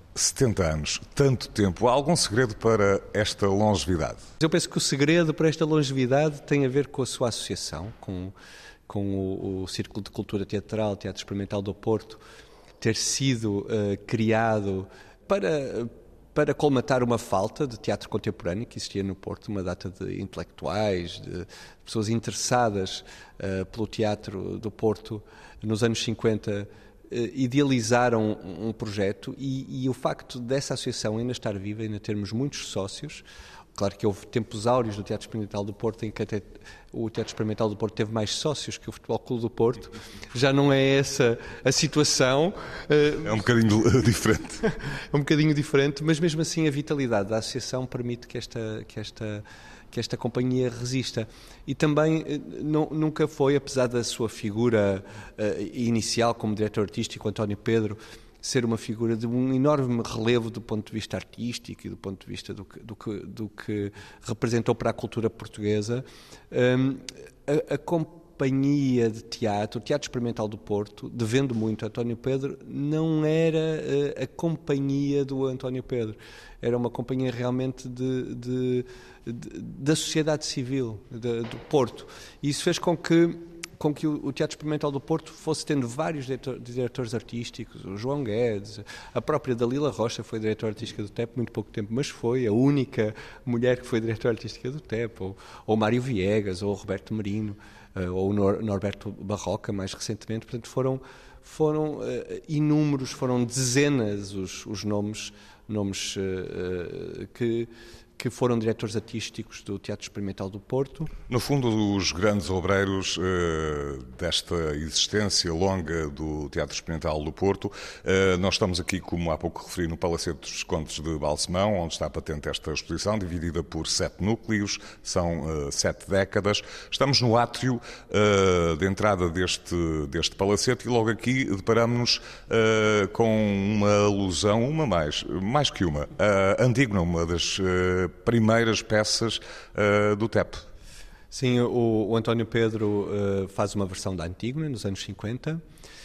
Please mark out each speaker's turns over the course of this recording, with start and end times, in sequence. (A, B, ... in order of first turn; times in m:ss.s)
0:00.1-0:04.2 A
0:04.4-0:08.3 B
0:08.9-0:12.2 B
0:12.8-0:33.2 B
0:33.7-0:43.4 B
0:43.2-0:44.6 A
0:44.6-1:51.1 B
1:51.3-2:20.6 A
2:21.3-2:25.6 B